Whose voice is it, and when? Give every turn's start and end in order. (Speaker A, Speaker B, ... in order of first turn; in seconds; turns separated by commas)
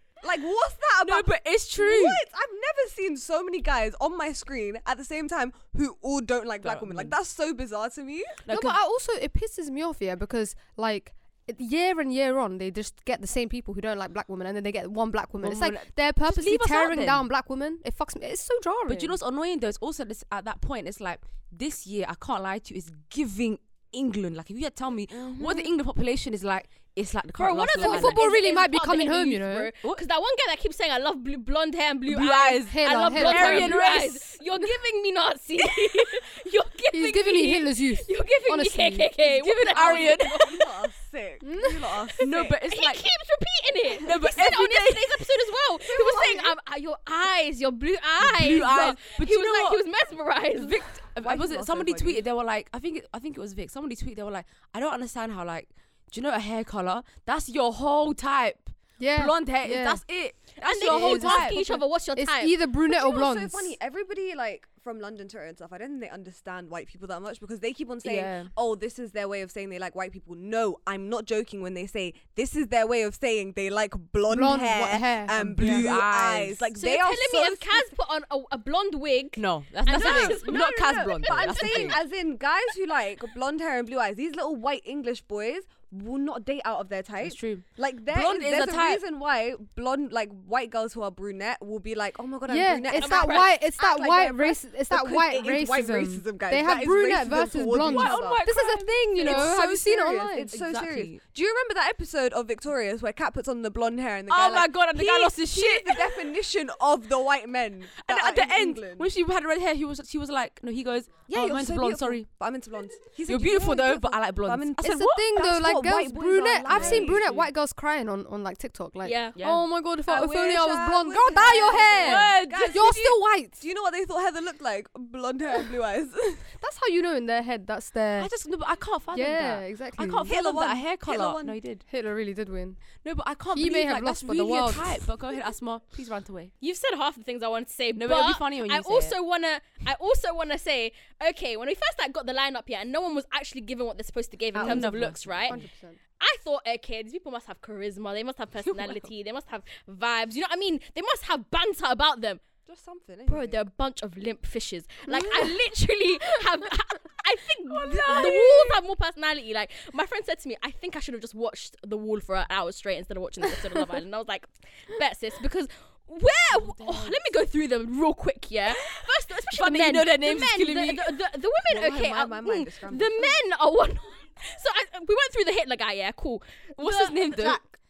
Speaker A: 0.2-8.4, Speaker B: 1.0-2.2, Speaker B: 6.6-7.2, Speaker B: 8.4-8.8, Speaker C: 8.5-19.2, Speaker B: 15.4-17.3, Speaker B: 18.9-28.3, Speaker A: 25.2-25.7, Speaker D: 27.4-40.8, Speaker C: 27.8-29.7, Speaker B: 32.1-34.4, Speaker C: 32.6-33.8, Speaker C: 36.9-39.1, Speaker B: 39.2-40.5, Speaker A: 39.7-42.6, Speaker C: 41.4-41.8, Speaker B: 42.2-43.1, Speaker D: 42.7-50.8, Speaker B: 44.0-45.3, Speaker A: 45.8-46.5, Speaker B: 48.2-49.8, Speaker B: 50.5-61.6, Speaker A: 51.2-52.2, Speaker C: 59.0-60.0, Speaker D: 60.6-62.6, Speaker C: 60.9-63.8, Speaker A: 62.8-77.9, Speaker B: 68.0-68.5, Speaker C: 74.3-76.0, Speaker B: 75.4-76.7, Speaker D: 76.8-82.1, Speaker B: 79.4-82.0, Speaker A: 79.9-98.5, Speaker B: 87.2-89.0, Speaker C: 92.5-100.5, Speaker D: 92.9-93.5, Speaker B: 97.8-99.5, Speaker A: 99.2-109.1, Speaker B: 100.5-101.2, Speaker B: 104.3-106.2, Speaker B: 108.0-112.3, Speaker A: 111.3-117.3, Speaker B: 113.2-115.3, Speaker C: 114.8-123.6, Speaker B: 116.7-117.4, Speaker D: 119.0-119.4, Speaker B: 119.4-119.7, Speaker A: 120.1-126.5, Speaker B: 121.9-122.9, Speaker C: 126.6-128.3, Speaker B: 128.2-131.8, Speaker C: 129.1-130.3, Speaker A: 130.2-131.6, Speaker C: 131.9-132.8, Speaker B: 133.0-136.5, Speaker C: 133.5-135.1, Speaker D: 136.6-145.6, Speaker B: 137.9-139.2, Speaker B: 144.6-145.6, Speaker C: 144.6-146.0, Speaker D: 146.2-152.4, Speaker B: 148.7-149.0, Speaker A: 152.7-153.6, Speaker D: 153.3-177.6, Speaker B: 157.7-158.8, Speaker A: 158.1-158.4, Speaker B: 169.5-171.2, Speaker A: 171.7-173.4, Speaker B: 176.8-177.6